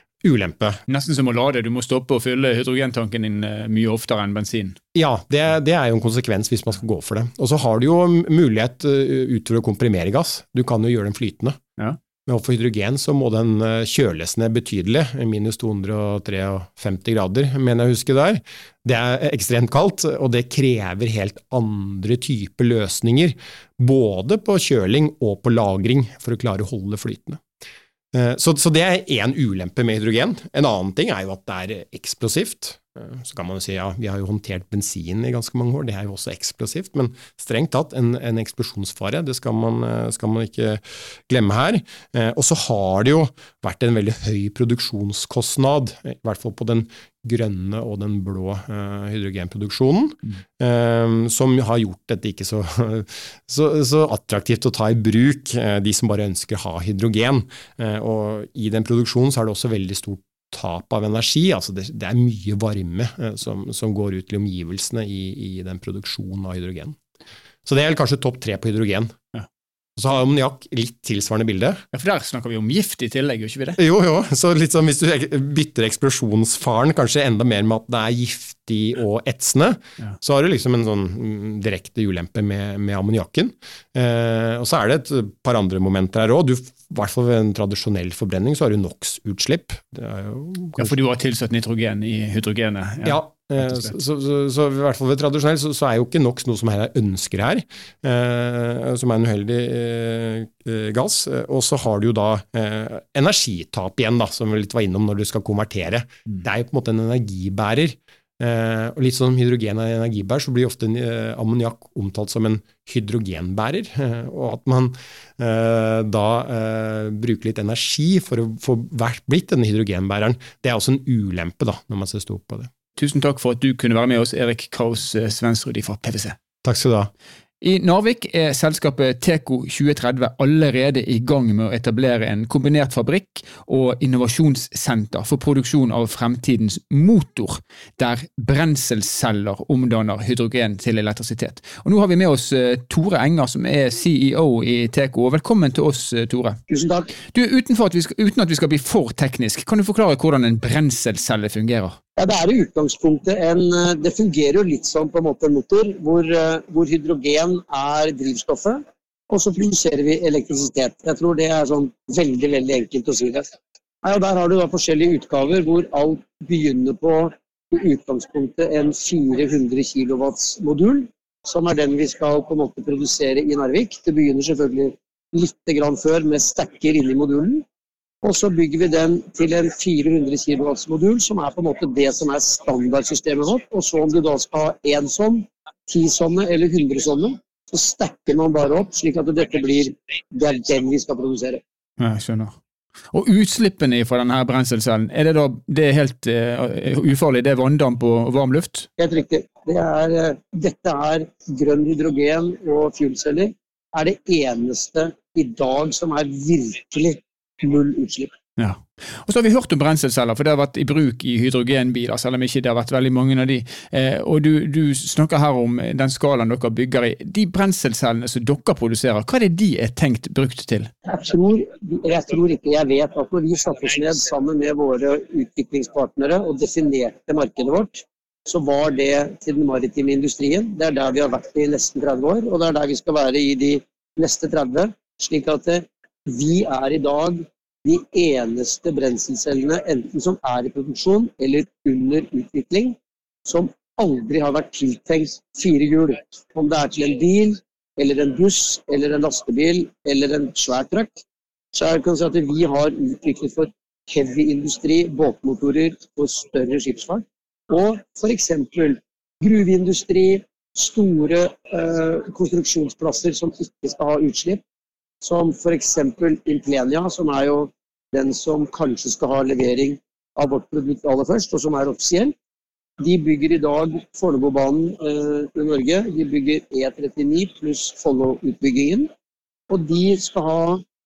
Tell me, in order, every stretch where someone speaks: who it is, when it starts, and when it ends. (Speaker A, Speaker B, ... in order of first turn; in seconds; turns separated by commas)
Speaker A: 0.2-0.8, Speaker B: 0.9-4.8, Speaker A: 4.9-11.6, Speaker A: 12.2-27.4, Speaker A: 28.1-67.0, Speaker A: 67.6-69.1, Speaker A: 70.0-71.8, Speaker B: 71.9-73.8, Speaker A: 73.8-90.9, Speaker B: 90.8-94.0, Speaker A: 93.0-122.7, Speaker B: 123.0-126.4, Speaker A: 126.6-127.1, Speaker B: 127.6-146.6, Speaker C: 146.7-147.1, Speaker B: 147.3-152.0, Speaker C: 152.2-163.5, Speaker C: 164.0-177.6, Speaker C: 178.2-191.6, Speaker B: 192.0-192.6, Speaker B: 193.1-198.9, Speaker C: 199.0-208.3, Speaker B: 208.6-220.9, Speaker C: 221.1-251.2, Speaker C: 251.7-264.6, Speaker C: 265.2-272.3, Speaker C: 273.0-279.1, Speaker C: 279.7-280.8